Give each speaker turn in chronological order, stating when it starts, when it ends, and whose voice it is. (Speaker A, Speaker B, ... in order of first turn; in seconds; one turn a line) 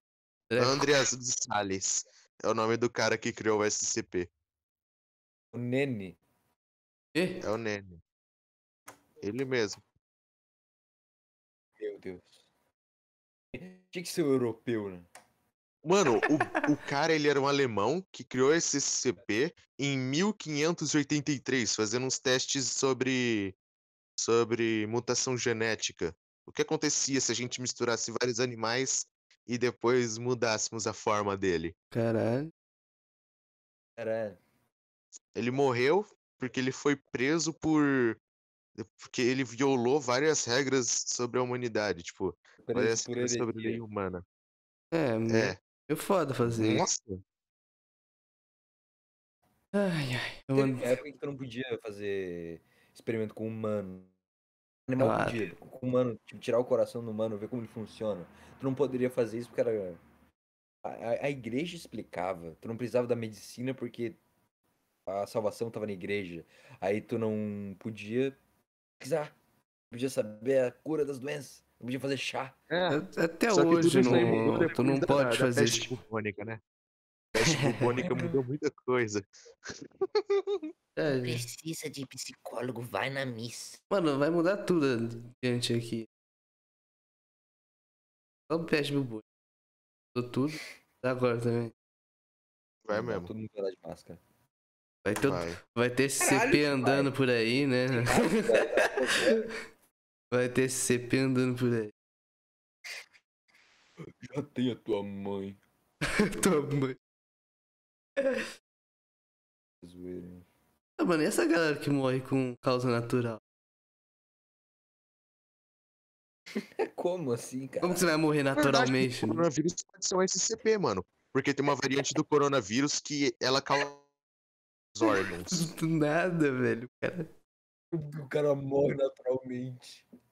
Speaker A: 0.5-0.8
Speaker B: 0.6-4.3
Speaker C: 5.5-6.2
Speaker A: 7.2-7.4
Speaker B: 7.4-8.0
Speaker B: 9.2-9.8
Speaker C: 11.8-12.4
Speaker C: 13.5-15.1
Speaker B: 15.8-23.6
Speaker B: 24.2-31.7
Speaker A: 31.9-32.5
Speaker C: 34.0-34.4
Speaker B: 35.4-38.2
Speaker B: 38.8-44.2
Speaker C: 42.6-43.8
Speaker A: 44.9-46.8
Speaker B: 45.3-45.6
Speaker B: 46.4-47.2
Speaker A: 49.7-51.0
Speaker C: 50.5-54.1
Speaker C: 54.9-60.0
Speaker A: 55.0-55.5
Speaker C: 60.8-64.2
Speaker C: 65.1-68.4
Speaker C: 69.0-69.4
Speaker C: 69.9-72.6
Speaker B: 72.7-76.6
Speaker A: 72.9-75.9
Speaker C: 73.8-74.7
Speaker B: 77.3-80.7
Speaker A: 77.4-77.9
Speaker C: 78.0-78.4
Speaker A: 81.0-81.5
Speaker D: 81.1-83.8
Speaker A: 83.9-86.1
Speaker A: 88.5-89.2
Speaker A: 90.2-91.7
Speaker B: 92.8-93.3
Speaker C: 92.9-94.2
Speaker A: 95.0-99.5
Speaker B: 95.2-95.6
Speaker C: 96.2-97.1
Speaker C: 97.9-99.5
Speaker A: 100.3-101.9
Speaker C: 104.2-105.6
Speaker A: 106.1-107.0
Speaker A: 108.2-108.5
Speaker C: 109.8-110.5
Speaker A: 111.0-113.4
Speaker C: 116.8-118.1
Speaker A: 117.8-119.5
Speaker B: 118.6-124.1
Speaker B: 125.0-125.7
Speaker A: 125.1-127.3
Speaker C: 127.9-130.1